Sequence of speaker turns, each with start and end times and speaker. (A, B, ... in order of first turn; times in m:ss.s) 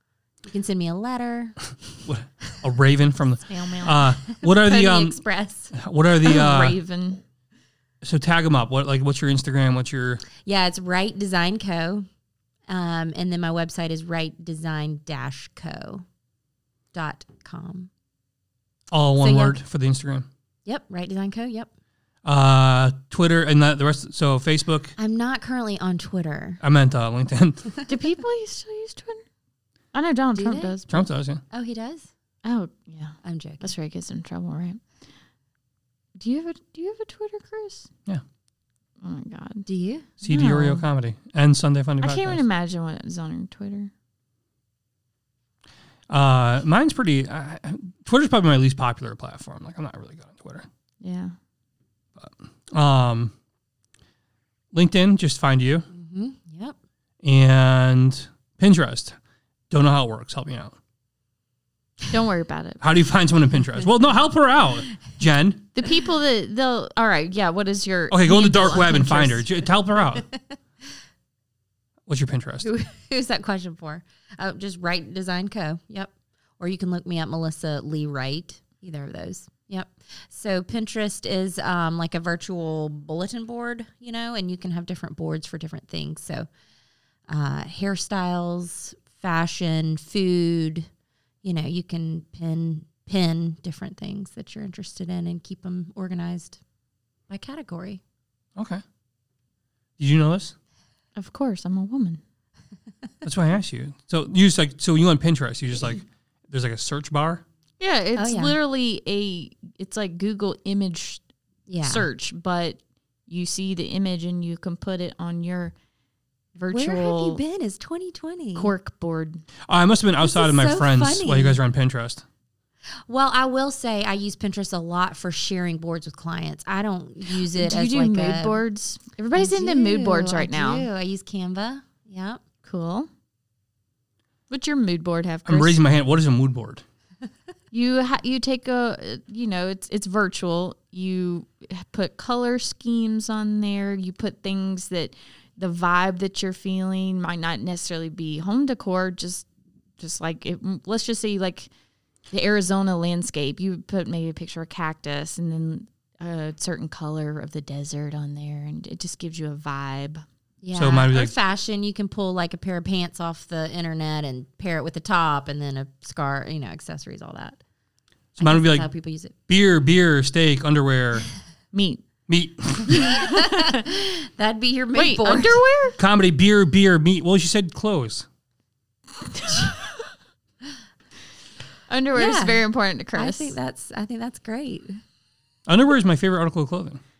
0:00.4-0:01.6 A
0:02.0-0:05.2 B
0:03.5-0:03.9 C
0:04.3-0:05.7 A
0:05.7-0:06.8 B
0:06.2-0:07.2 C
0:08.0-0:10.2 B
0:10.4-0:12.1 A
0:12.7-0:16.0 A
0:16.9-0:17.9 A
0:18.9-0:20.3 B
0:19.2-0:19.6 A
0:20.6-0:21.7 A
0:22.2-0:24.9 B
0:25.0-0:26.6 A
0:26.6-0:27.7 B
0:27.9-0:29.2 C
0:29.9-0:31.0 C
0:30.3-0:30.8 A
0:30.9-0:31.4 B
0:31.5-0:32.1 A
0:32.4-0:34.8 C
0:33.2-0:33.7 A
0:36.2-0:37.9 C
0:39.0-0:39.6 C
0:39.6-0:40.1 A
0:40.2-0:42.4 B
0:40.2-0:40.8 C
0:42.0-0:43.9 C
0:46.1-0:50.7 B
0:51.0-0:51.3 C
0:52.2-0:53.3 B
0:54.7-0:55.9 B
0:55.9-0:56.8 A
0:57.2-0:59.2 B
0:59.7-1:00.7 B
1:02.1-1:02.8 C
1:02.8-1:05.7 B
1:05.7-1:09.5 C
1:08.1-1:10.3 B
1:12.1-1:12.7 B
1:12.6-1:26.5 A
1:27.3-1:30.9 A
1:31.4-1:36.6 A
1:37.3-1:38.0 A
1:38.6-1:38.8 B
1:40.0-1:40.5 B
1:41.2-1:42.2 C
1:43.2-1:47.4 B
1:47.8-1:51.2 C
1:48.2-1:48.6 A
1:51.7-1:52.1 A
1:51.8-1:55.7 C
1:56.6-1:57.4 C
1:56.7-1:58.7 A
1:58.6-1:59.4 C
1:59.7-2:02.2 B
2:00.2-2:01.6 A
2:03.0-2:08.6 A
2:07.4-2:10.9 C
2:09.3-2:12.4 A
2:12.6-2:13.1 C
2:14.5-2:15.8 C
2:15.4-2:16.8 B
2:17.7-2:29.5 C
2:30.0-2:31.7 C
2:32.3-2:40.2 C
2:40.6-2:47.6 A
2:40.7-2:41.3 B
2:48.4-2:48.9 B
2:48.4-2:49.3 A
2:49.5-2:51.3 B
2:51.7-2:52.0 C
2:52.3-2:53.1 B
2:52.9-2:53.8 C
2:52.9-2:55.6 A
2:54.9-2:56.0 C
2:56.0-2:58.2 B
2:59.4-2:59.9 C
3:01.9-3:03.5 C
3:02.1-3:05.0 A
3:05.7-3:07.0 B